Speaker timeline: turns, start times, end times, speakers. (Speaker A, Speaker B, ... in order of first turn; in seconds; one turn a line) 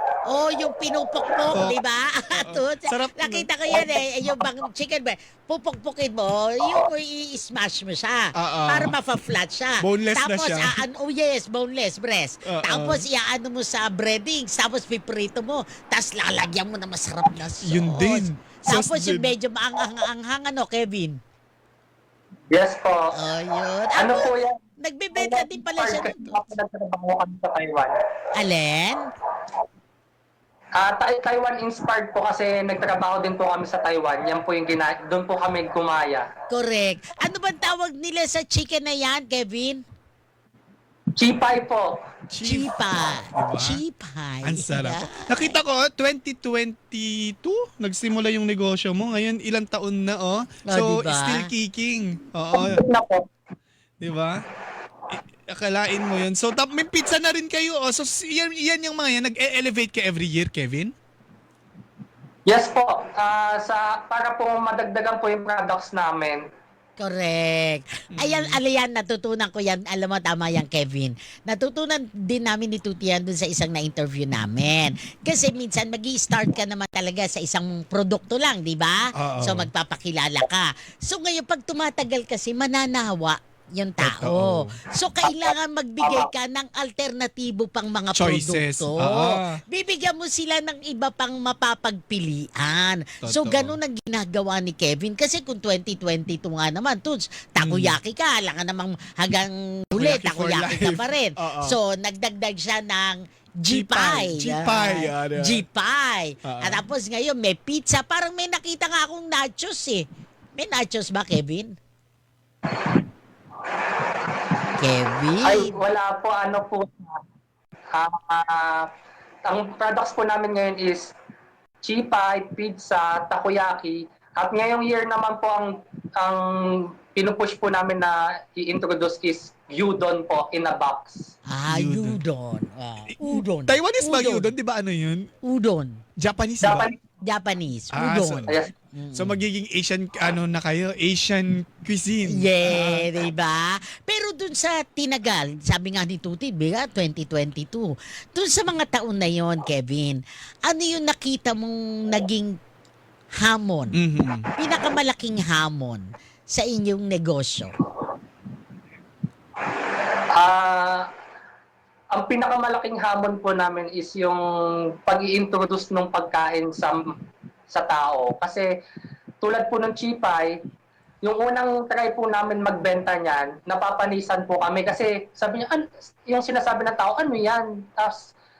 Speaker A: 0.2-21.2
Speaker B: 1.5-1.8
Speaker B: 2.4-3.5
Speaker B: 8.3-8.9
Speaker B: 9.8-10.8
Speaker B: 12.4-13.1
Speaker B: 17.6-19.3
Speaker C: 22.5-23.1
Speaker A: 23.1-26.4
Speaker C: 23.9-24.6
Speaker C: 25.1-27.9
Speaker A: 28.3-29.1
Speaker C: 30.8-36.3
Speaker A: 36.5-39.8
Speaker C: 41.2-41.9
Speaker B: 42.3-43.8
Speaker A: 42.4-45.6
Speaker B: 44.4-52.8
Speaker A: 50.7-51.5
Speaker C: 52.5-53.3
Speaker B: 54.0-54.4
Speaker B: 55.1-60.9
Speaker C: 62.5-66.4
Speaker A: 67.0-110.0
Speaker B: 68.1-68.6
Speaker B: 79.1-79.7
Speaker B: 84.0-84.8
Speaker C: 85.2-86.3
Speaker B: 88.1-89.6
Speaker B: 93.2-93.8
Speaker B: 97.6-98.0
Speaker B: 99.9-101.8
Speaker B: 103.7-105.6
Speaker B: 106.4-106.9
Speaker A: 110.5-111.7
Speaker C: 113.8-114.4
Speaker A: 114.8-115.8
Speaker C: 115.4-117.2
Speaker C: 117.9-118.9
Speaker C: 119.4-121.1
Speaker C: 121.8-126.5
Speaker C: 127.1-131.3
Speaker A: 131.4-134.5
Speaker B: 131.7-132.2
Speaker B: 133.1-135.3
Speaker A: 135.4-136.0
Speaker B: 136.2-136.9
Speaker C: 136.6-137.0
Speaker A: 137.2-139.4
Speaker B: 137.9-138.5
Speaker B: 139.1-143.1
Speaker A: 142.2-152.6
Speaker A: 153.4-154.0
Speaker B: 153.9-154.5
Speaker A: 154.6-157.7
Speaker C: 159.7-161.1
Speaker C: 162.1-164.4
Speaker C: 165.0-167.0
Speaker C: 167.7-168.7
Speaker C: 169.4-170.5
Speaker C: 171.2-178.3